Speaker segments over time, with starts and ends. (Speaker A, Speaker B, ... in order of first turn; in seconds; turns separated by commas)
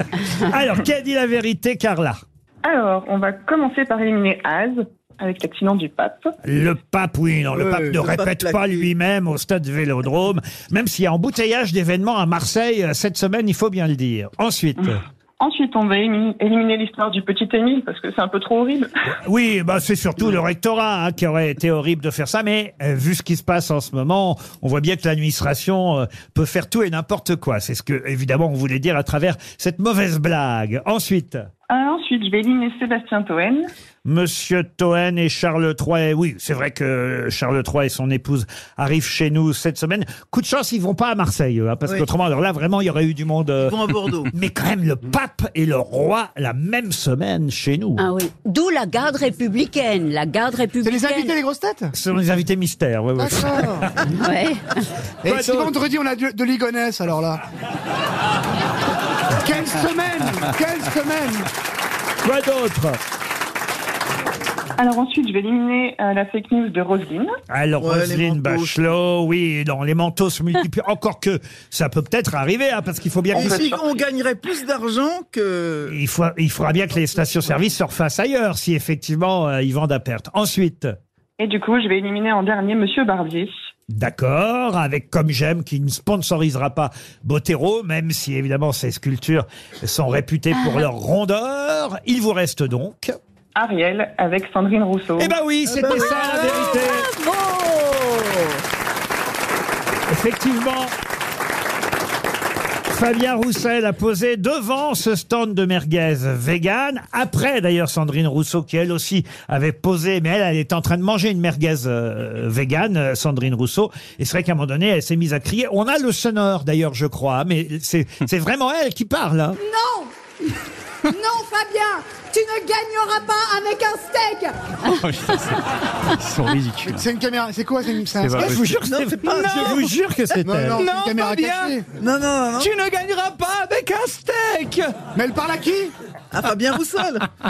Speaker A: 0.2-2.2, Speaker B: 2.7-6.2, Speaker A: 6.4-15.0, Speaker C: 7.5-8.9, Speaker B: 15.4-18.9, Speaker A: 19.2-31.5, Speaker B: 31.7-33.7, Speaker A: 34.0-48.0, Speaker C: 43.6-44.3, Speaker D: 48.0-51.3, Speaker E: 50.8-51.9, Speaker A: 51.9-53.9, Speaker E: 53.2-53.9, Speaker D: 54.2-54.7, Speaker E: 55.2-57.4, Speaker A: 55.2-55.7, Speaker E: 59.3-61.5, Speaker A: 62.2-63.0, Speaker B: 64.8-67.3, Speaker A: 67.5-73.8, Speaker C: 67.8-68.9, Speaker C: 73.3-76.0, Speaker A: 75.9-80.9, Speaker B: 81.4-83.5, Speaker A: 83.9-93.1, Speaker B: 93.5-95.3, Speaker A: 95.2-97.1, Speaker D: 96.0-97.8, Speaker A: 100.1-100.9, Speaker A: 102.9-119.6, Speaker F: 119.6-120.1, Speaker F: 121.1-124.8, Speaker G: 124.8-127.0, Speaker E: 126.8-128.6, Speaker G: 128.2-128.5, Speaker A: 128.3-130.8, Speaker C: 128.6-129.9, Speaker E: 130.4-131.8, Speaker G: 130.7-131.8, Speaker C: 132.0-132.7, Speaker G: 132.6-134.9, Speaker E: 135.2-135.9, Speaker C: 136.3-137.3